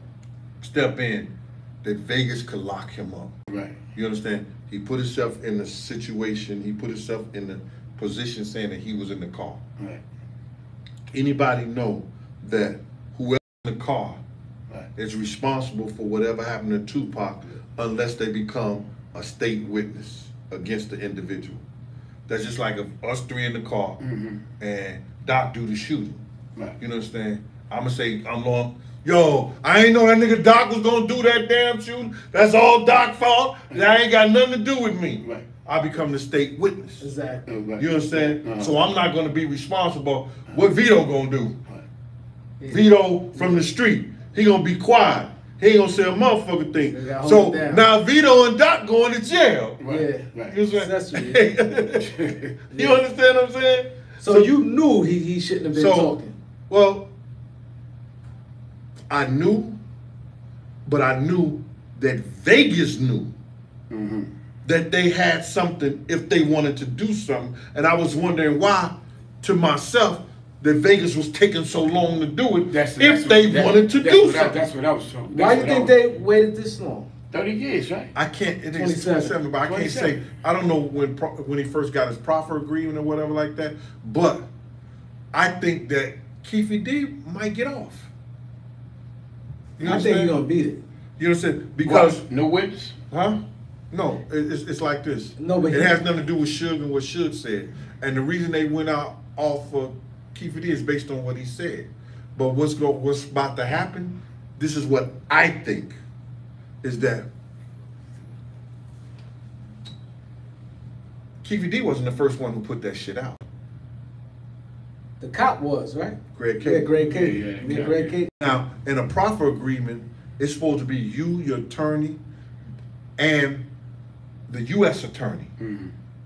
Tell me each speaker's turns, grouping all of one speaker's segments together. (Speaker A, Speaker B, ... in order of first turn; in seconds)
Speaker A: 0.6-3.4, 3.9-9.6, 11.1-14.2, 15.0-21.6, 22.3-24.0, 24.6-26.2, 26.8-37.1, 37.8-41.6, 42.7-49.8, 50.5-54.5, 55.7-56.1, 56.7-57.1, 59.1-59.8, 60.9-63.3, 64.6-74.6, 78.2-84.5, 85.3-88.1, 89.8-90.4, 91.2-92.2, 93.1-93.4, 93.9-106.0, 106.8-107.3, 111.4-113.5, 116.3-116.9, 118.4-122.2, 123.2-123.7, 124.5-125.5
Speaker B: 3.5-3.8, 24.0-24.4, 37.5-38.7, 49.8-50.6, 52.0-52.5, 63.9-64.3, 72.7-75.9, 77.3-78.1, 79.6-80.2, 91.8-93.0, 117.0-118.2, 125.6-125.9
Speaker C: 37.0-37.5, 42.6-43.6, 46.8-47.8, 49.9-51.4, 52.7-53.0, 54.2-56.4, 75.3-77.1, 78.8-79.4, 89.8-90.8, 95.4-96.0, 115.2-118.4